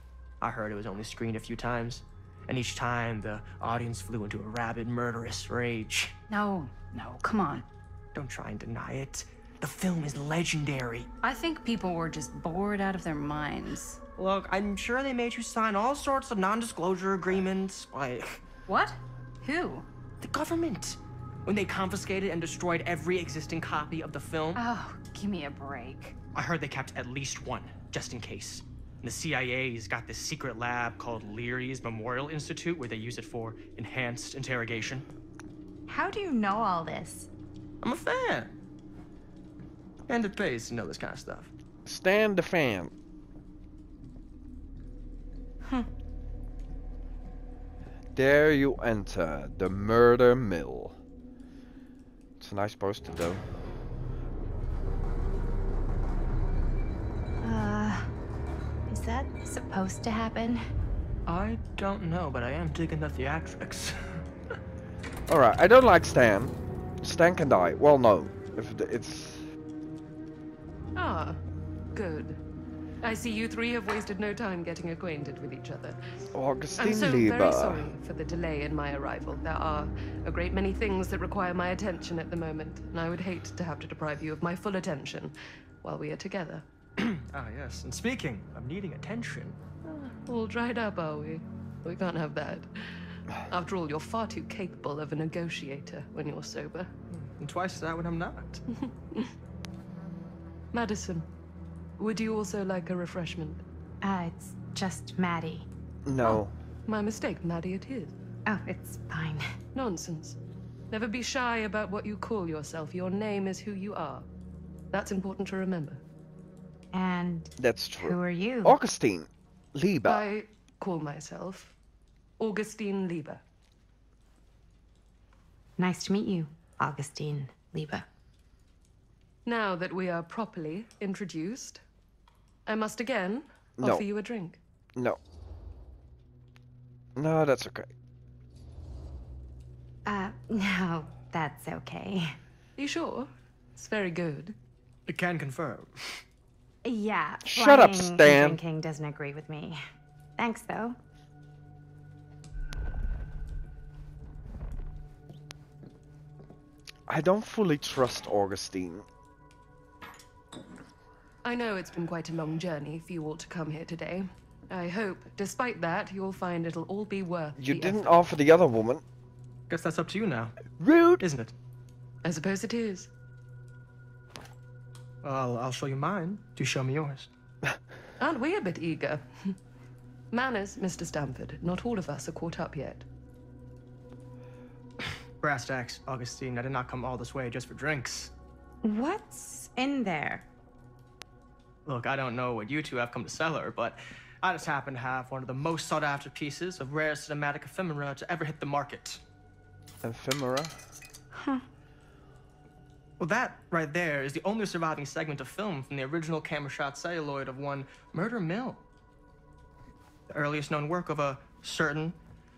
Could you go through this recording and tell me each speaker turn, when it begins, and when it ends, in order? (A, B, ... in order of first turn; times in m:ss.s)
0:00.4-0:06.2 A
0:06.3-0:07.7 B
0:08.1-0:11.1 A
0:11.2-0:14.0 B
0:14.2-0:18.4 A
0:18.7-0:19.9 B
0:20.2-0:24.6 A
0:24.6-0:26.2 B
0:26.4-0:35.1 A
0:35.9-0:37.3 C
0:37.8-0:38.5 A
0:40.1-0:41.5 A
0:41.9-0:42.9 D
0:48.2-0:51.0 D
0:52.4-0:53.4 D
0:57.4-0:58.1 C
0:58.9-1:00.6 C
1:01.3-1:04.2 A
1:05.3-1:09.4 D
1:11.0-1:11.4 E
1:11.9-1:12.4 E
1:13.0-1:16.0 E
1:16.3-1:17.9 D
1:16.8-1:26.6 E
1:27.0-1:29.6 A
1:29.8-1:33.0 E
1:33.5-1:36.9 E
1:37.1-1:38.6 A
1:38.7-1:39.3 E
1:40.7-1:41.3 E
1:42.0-1:43.6 E
1:44.0-1:45.7 C
1:46.1-1:46.5 D
1:46.9-1:48.2 E
1:48.5-1:49.5 C
1:49.8-1:50.4 E
1:50.9-1:54.3 E
1:54.9-1:56.0 E
1:56.9-1:58.8 C
1:57.6-2:00.2 D
2:00.0-2:01.8 E
2:02.4-2:03.4 E
2:05.8-2:08.1 C
2:09.5-2:11.8 E
2:12.7-2:14.6 E
2:13.8-2:14.0 D
2:17.2-2:17.9 D
2:20.1-2:22.4 C
2:22.8-2:24.6 E
2:25.1-2:26.2 A
2:26.8-2:29.8 C
2:27.5-2:28.6 D
2:30.4-2:31.0 C
2:37.1-2:39.0 D
2:41.4-2:48.2 E
2:47.6-2:49.0 D
2:49.7-2:51.5 A
2:50.8-2:51.2 D
2:52.2-2:53.1 E
2:55.2-2:57.3 A
2:58.2-2:59.6 E
3:00.3-3:03.1 E
3:05.4-3:08.3 A
3:08.8-3:10.5 C
3:11.9-3:19.2 A
3:20.0-3:20.8 D
3:21.3-3:21.6 C
3:23.2-3:28.8 A
3:30.3-3:32.2 A